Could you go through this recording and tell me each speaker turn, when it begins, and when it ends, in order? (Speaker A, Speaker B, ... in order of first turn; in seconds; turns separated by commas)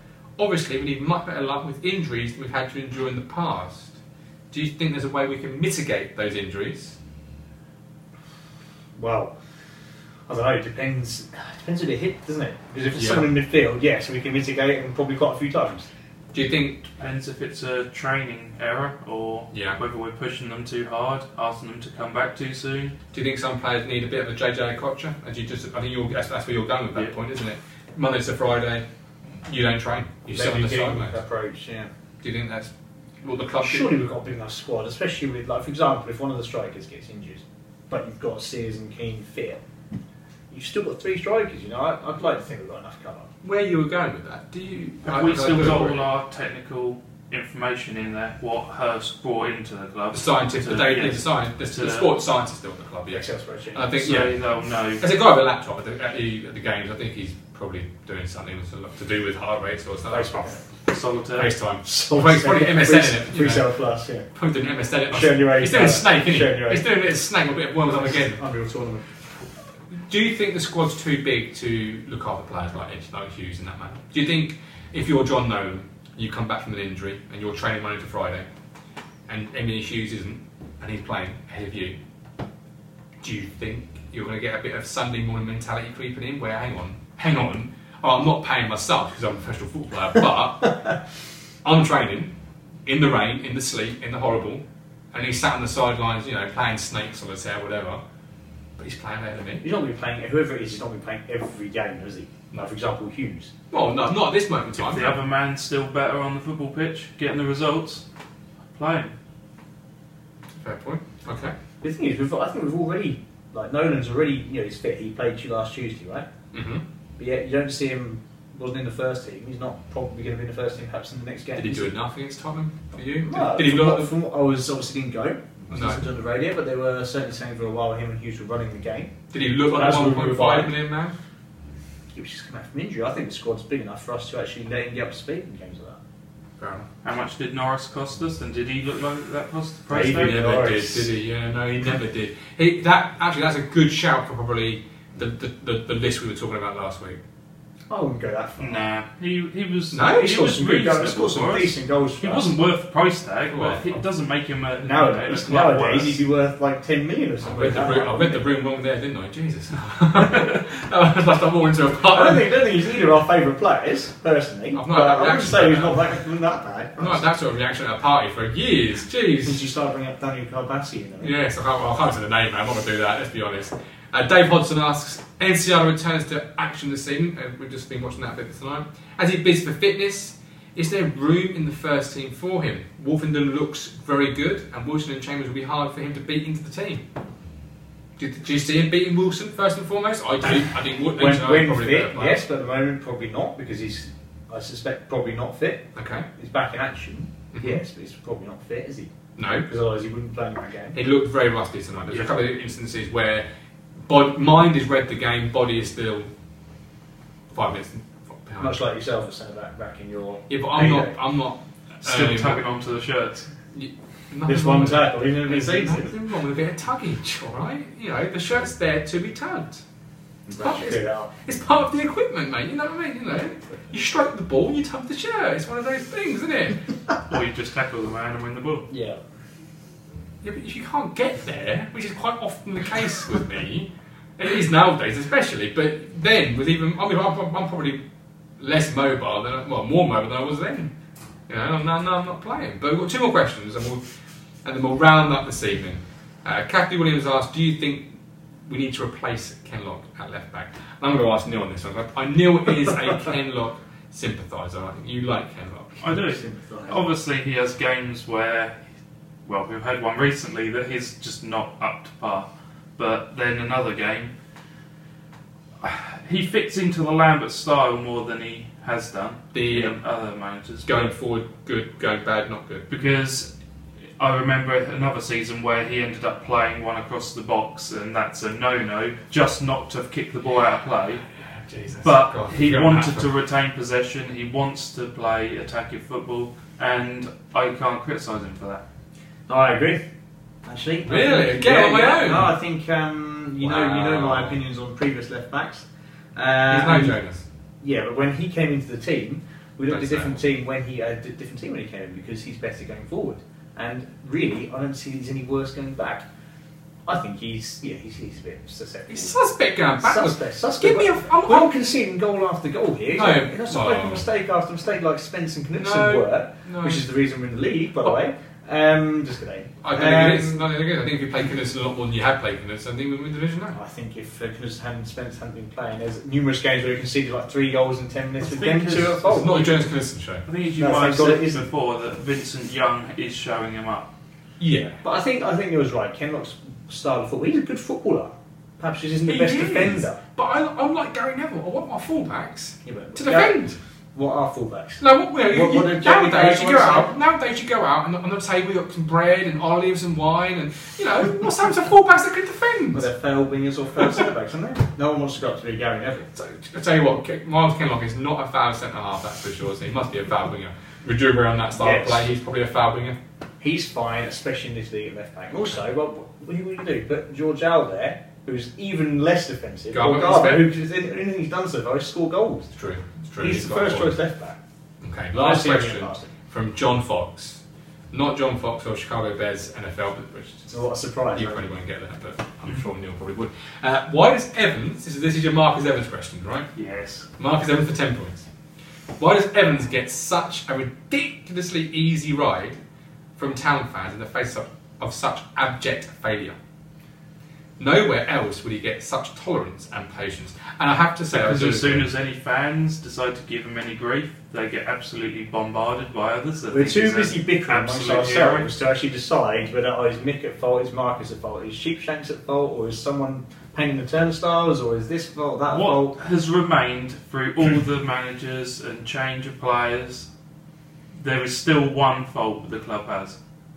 Speaker A: 0.4-4.0, Speaker A: 4.5-7.0, Speaker B: 8.9-9.3, Speaker B: 10.3-15.9, Speaker A: 12.9-13.3, Speaker A: 16.3-16.9, Speaker C: 17.0-23.0, Speaker A: 19.5-19.8, Speaker A: 23.1-28.9, Speaker A: 29.4-31.2, Speaker B: 30.3-31.9, Speaker A: 32.2-34.0, Speaker B: 33.6-39.6, Speaker B: 40.5-43.3, Speaker A: 43.4-46.0, Speaker C: 45.0-52.1, Speaker A: 50.1-54.4, Speaker B: 53.1-53.9, Speaker C: 54.0-55.0, Speaker A: 55.0-60.6, Speaker B: 60.1-60.6, Speaker C: 60.9-61.5, Speaker A: 61.4-63.7, Speaker B: 61.8-64.3, Speaker A: 64.3-68.4, Speaker B: 65.1-66.9, Speaker B: 68.0-69.1, Speaker A: 69.9-78.5, Speaker A: 79.3-82.0, Speaker A: 83.2-91.0, Speaker A: 91.6-92.3, Speaker A: 92.9-98.0, Speaker A: 98.8-99.7, Speaker B: 99.6-103.5, Speaker A: 103.7-105.2, Speaker C: 104.8-108.0, Speaker C: 108.7-109.2, Speaker A: 110.5-111.6, Speaker B: 111.8-116.3, Speaker A: 116.5-116.8, Speaker B: 117.2-121.9, Speaker A: 121.5-124.1, Speaker B: 123.2-129.1, Speaker A: 125.7-126.0, Speaker A: 129.3-131.2, Speaker B: 129.7-130.7, Speaker B: 132.1-136.0, Speaker A: 136.6-136.9, Speaker C: 137.0-140.4, Speaker B: 139.9-141.1, Speaker A: 140.0-147.2, Speaker B: 147.9-148.9, Speaker C: 148.6-156.2, Speaker A: 149.9-150.3, Speaker B: 150.1-152.5, Speaker A: 153.5-153.9, Speaker B: 154.8-158.4, Speaker A: 157.4-162.5, Speaker B: 162.1-167.2, Speaker A: 164.7-166.2, Speaker A: 167.0-169.6, Speaker B: 169.4-171.3, Speaker A: 171.2-187.1, Speaker A: 188.2-192.4, Speaker B: 191.2-199.1, Speaker A: 195.9-196.3, Speaker A: 197.5-197.8, Speaker A: 199.4-199.7, Speaker B: 199.7-201.0, Speaker A: 200.9-203.5, Speaker A: 204.1-206.3, Speaker A: 207.5-208.8, Speaker B: 208.6-211.2, Speaker A: 210.5-212.6, Speaker C: 212.0-213.5, Speaker A: 213.7-219.8, Speaker B: 214.4-216.1, Speaker B: 220.5-221.3, Speaker A: 220.6-226.9, Speaker C: 227.3-228.9, Speaker B: 228.9-229.2, Speaker A: 230.4-238.1, Speaker A: 238.6-240.9, Speaker A: 241.5-244.0, Speaker A: 244.6-256.0, Speaker C: 256.0-258.8, Speaker B: 256.0-257.1, Speaker C: 259.4-264.3, Speaker C: 265.8-271.1, Speaker A: 269.5-270.0, Speaker A: 270.9-272.9, Speaker C: 272.9-273.5, Speaker C: 274.2-281.3, Speaker A: 281.4-283.3, Speaker C: 282.0-288.8, Speaker B: 289.5-290.0, Speaker B: 290.6-297.2, Speaker A: 291.1-292.5, Speaker A: 293.6-294.6, Speaker A: 296.7-297.4, Speaker B: 297.8-306.3, Speaker A: 299.9-300.4, Speaker B: 307.1-309.4, Speaker A: 309.1-311.7, Speaker B: 310.0-320.7, Speaker A: 313.1-314.2, Speaker A: 315.8-317.0, Speaker A: 319.8-323.8, Speaker B: 323.7-329.7, Speaker C: 328.4-329.7, Speaker A: 329.2-330.4, Speaker C: 330.5-334.1, Speaker B: 330.8-331.7, Speaker A: 334.6-335.0, Speaker B: 335.0-340.2, Speaker A: 339.2-343.8, Speaker B: 342.8-347.2, Speaker A: 345.0-353.1, Speaker B: 352.9-356.3, Speaker A: 356.3-363.2, Speaker B: 361.7-362.3, Speaker B: 363.6-372.7, Speaker A: 369.9-370.7, Speaker A: 372.7-374.2, Speaker B: 373.4-374.6, Speaker A: 375.0-377.6, Speaker B: 375.3-376.3, Speaker A: 378.1-380.8, Speaker B: 380.7-381.7, Speaker A: 381.3-386.7, Speaker C: 386.8-387.3, Speaker A: 387.4-388.5, Speaker A: 389.2-392.8, Speaker A: 393.4-396.6, Speaker A: 397.8-402.1, Speaker C: 401.3-408.7, Speaker B: 406.7-416.2, Speaker C: 415.7-420.3, Speaker C: 421.2-423.4